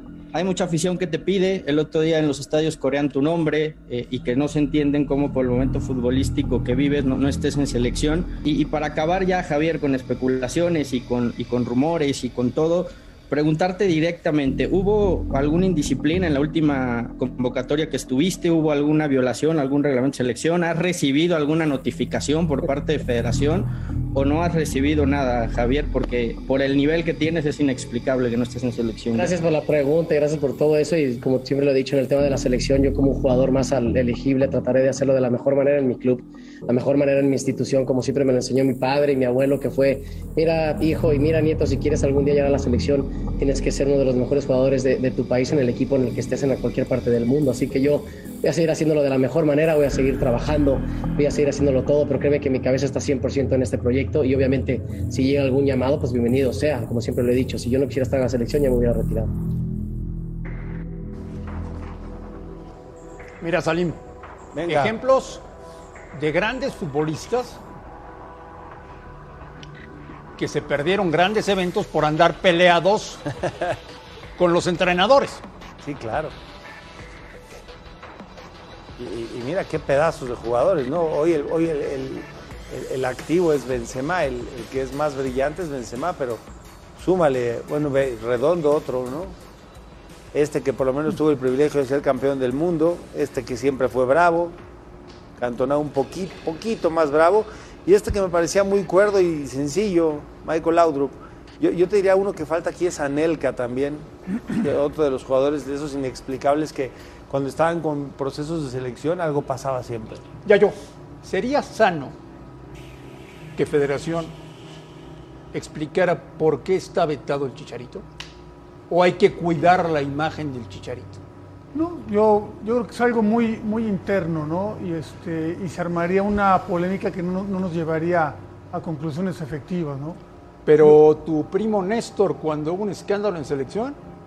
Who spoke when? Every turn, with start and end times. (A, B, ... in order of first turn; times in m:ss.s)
0:00.3-0:29.4 A
0:29.1-0:59.3 B
1:03.4-1:04.0 C
1:04.5-1:04.9 D
1:04.7-1:05.4 C
1:06.1-1:07.6 C
1:10.4-1:13.2 C
1:14.4-1:15.4 C
1:15.8-1:16.3 D
1:19.0-1:26.4 D
1:27.0-1:29.4 D
1:30.3-1:34.6 D
1:35.4-1:50.2 D
1:50.4-1:52.1 C
1:53.6-1:54.3 C
1:55.5-1:58.0 C
1:58.9-2:01.2 C
2:01.7-2:10.2 E
2:10.6-2:14.0 C